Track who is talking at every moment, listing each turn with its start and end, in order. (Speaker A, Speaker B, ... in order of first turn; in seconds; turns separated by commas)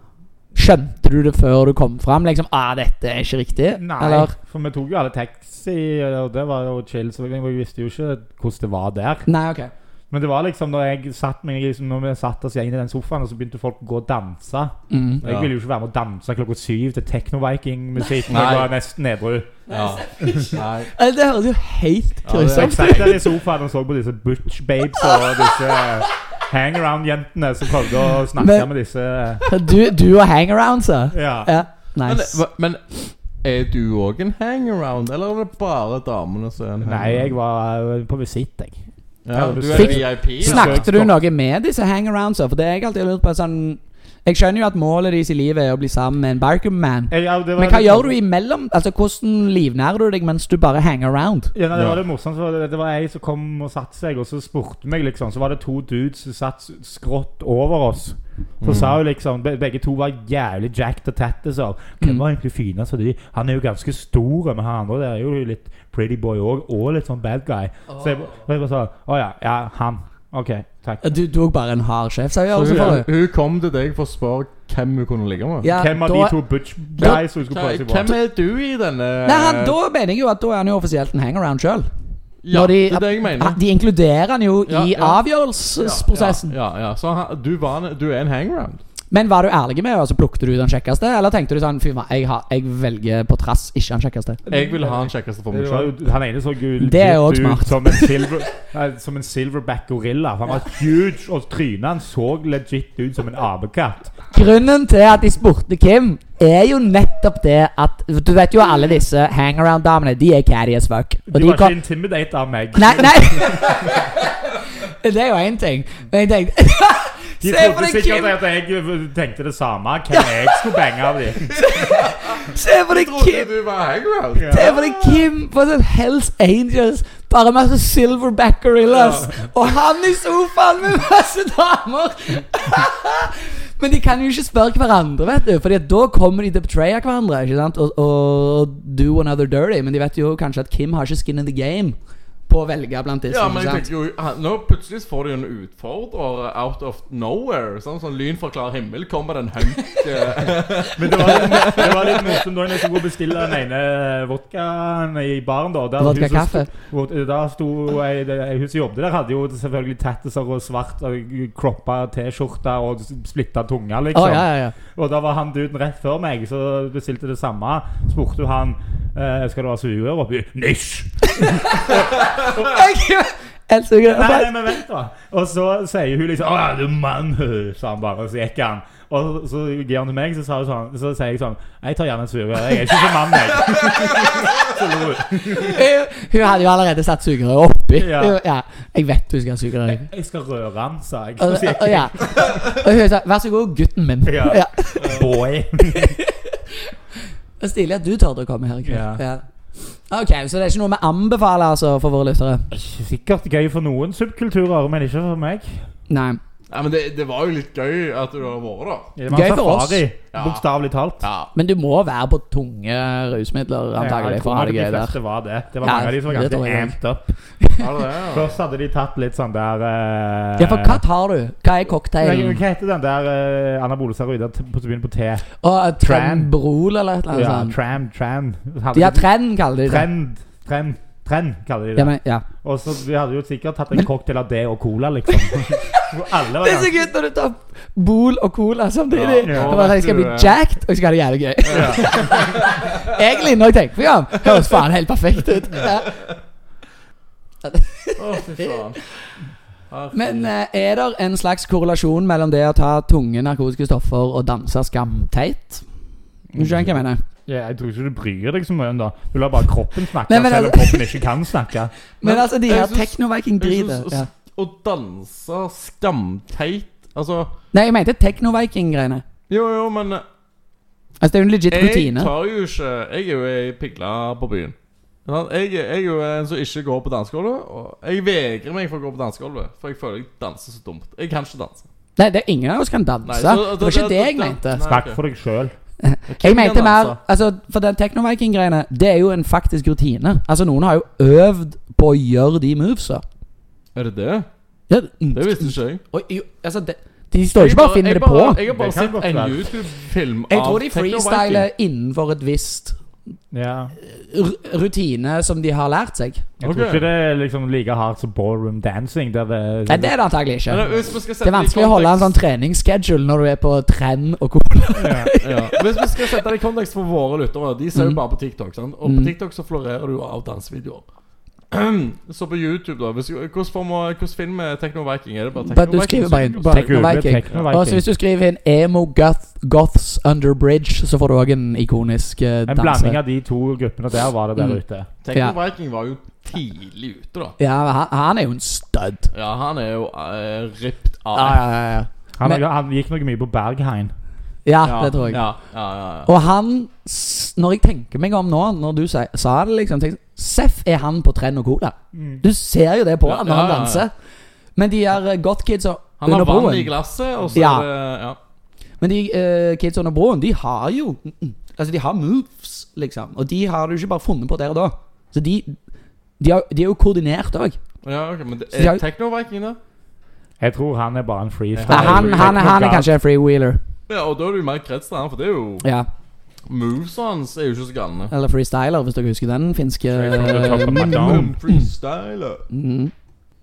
Speaker A: 0.5-4.3, Speaker B: 3.7-9.3, Speaker A: 9.3-9.7, Speaker B: 10.1-19.6, Speaker A: 14.9-15.2, Speaker C: 15.2-15.5, Speaker C: 18.3-18.7, Speaker C: 19.7-20.9, Speaker A: 19.7-23.3, Speaker B: 20.2-20.6, Speaker C: 22.2-23.1, Speaker B: 22.5-29.5, Speaker A: 28.4-28.7, Speaker A: 29.4-32.4, Speaker B: 31.1-31.5, Speaker C: 32.0-37.3, Speaker B: 36.8-38.8, Speaker C: 39.2-40.9, Speaker B: 39.3-41.2, Speaker A: 39.7-51.5, Speaker B: 47.1-48.2, Speaker B: 51.5-71.1, Speaker C: 51.7-52.0, Speaker C: 58.6-59.0, Speaker A: 71.0-73.1, Speaker C: 72.5-75.7, Speaker A: 75.6-76.4, Speaker B: 75.7-78.2, Speaker C: 77.0-79.7, Speaker A: 79.2-81.8, Speaker C: 82.4-83.6, Speaker A: 82.5-86.5, Speaker C: 84.7-85.2, Speaker C: 85.8-88.8, Speaker A: 89.1-94.4, Speaker C: 94.5-95.9, Speaker B: 94.5-104.1, Speaker A: 96.8-98.3, Speaker A: 104.3-111.8, Speaker B: 111.3-113.7, Speaker A: 112.7-118.3, Speaker B: 117.4-121.8, Speaker A: 121.6-123.5, Speaker C: 121.8-124.7, Speaker B: 124.3-125.2, Speaker A: 124.4-143.9, Speaker C: 128.9-129.2, Speaker C: 143.3-152.4, Speaker B: 150.7-172.0, Speaker A: 156.0-156.7, Speaker A: 164.1-164.7, Speaker A: 171.3-174.8, Speaker B: 174.0-185.8, Speaker A: 185.5-190.1, Speaker B: 188.0-188.4, Speaker B: 189.9-192.2, Speaker A: 191.4-195.2, Speaker B: 194.2-196.2, Speaker C: 195.0-195.3, Speaker A: 196.0-196.3, Speaker A: 197.6-202.7, Speaker B: 198.8-199.2, Speaker B: 202.7-205.8, Speaker A: 206.1-206.4, Speaker C: 206.7-209.1, Speaker B: 209.2-211.2, Speaker A: 209.3-210.1, Speaker C: 210.3-210.6, Speaker C: 211.2-211.5, Speaker A: 211.5-215.2, Speaker B: 214.0-217.3, Speaker A: 215.8-217.0, Speaker A: 217.6-217.8, Speaker C: 217.8-218.6, Speaker B: 218.3-221.0, Speaker A: 220.6-222.6, Speaker B: 222.2-225.5, Speaker A: 225.6-227.8, Speaker B: 226.0-226.5, Speaker B: 227.3-229.3, Speaker A: 228.9-230.1, Speaker B: 229.8-237.0, Speaker A: 231.9-232.4, Speaker A: 236.4-246.2, Speaker C: 239.1-240.6, Speaker B: 239.4-239.8, Speaker C: 241.7-242.7, Speaker B: 241.7-242.4, Speaker A: 247.6-248.7, Speaker C: 248.2-249.1, Speaker C: 249.9-250.5, Speaker A: 250.1-255.8, Speaker B: 256.5-256.9, Speaker A: 256.5-257.2, Speaker B: 257.5-261.9, Speaker A: 260.3-261.2, Speaker A: 262.2-264.3, Speaker C: 262.2-267.5, Speaker A: 267.7-269.2, Speaker C: 269.5-270.2, Speaker A: 271.2-272.3, Speaker C: 271.7-274.7, Speaker C: 275.2-281.9, Speaker A: 282.2-284.8, Speaker C: 283.2-285.2, Speaker B: 284.9-285.7, Speaker A: 286.0-293.2, Speaker C: 286.3-287.2, Speaker C: 293.9-294.5, Speaker A: 294.9-298.6, Speaker C: 295.3-296.0, Speaker C: 297.5-301.7, Speaker B: 298.6-299.6, Speaker A: 300.5-303.0, Speaker B: 303.5-303.9, Speaker A: 304.0-306.4, Speaker B: 306.6-310.1, Speaker C: 306.6-307.1, Speaker A: 309.9-316.2, Speaker C: 310.7-312.3, Speaker B: 314.9-315.3, Speaker C: 315.4-321.0, Speaker A: 317.9-318.2, Speaker A: 319.0-319.3, Speaker C: 321.7-327.7, Speaker A: 325.6-333.2, Speaker B: 326.6-328.0, Speaker B: 332.7-335.1, Speaker C: 335.2-337.5, Speaker A: 337.6-339.3, Speaker C: 339.3-341.6, Speaker A: 341.3-342.6, Speaker B: 342.4-344.1, Speaker A: 344.6-345.5, Speaker C: 344.8-346.3, Speaker A: 346.2-354.1, Speaker B: 352.1-352.4, Speaker C: 353.2-354.1, Speaker A: 354.8-356.9, Speaker C: 356.2-358.4, Speaker A: 357.5-357.9, Speaker A: 359.0-365.8, Speaker A: 366.4-367.8, Speaker C: 368.0-369.8, Speaker A: 368.7-369.0, Speaker B: 370.6-373.1, Speaker C: 371.7-372.6, Speaker A: 371.9-373.8, Speaker C: 374.1-375.8, Speaker A: 375.8-376.1, Speaker C: 376.7-378.3, Speaker A: 378.3-381.9, Speaker B: 380.2-381.6, Speaker C: 380.2-382.6, Speaker A: 382.7-383.1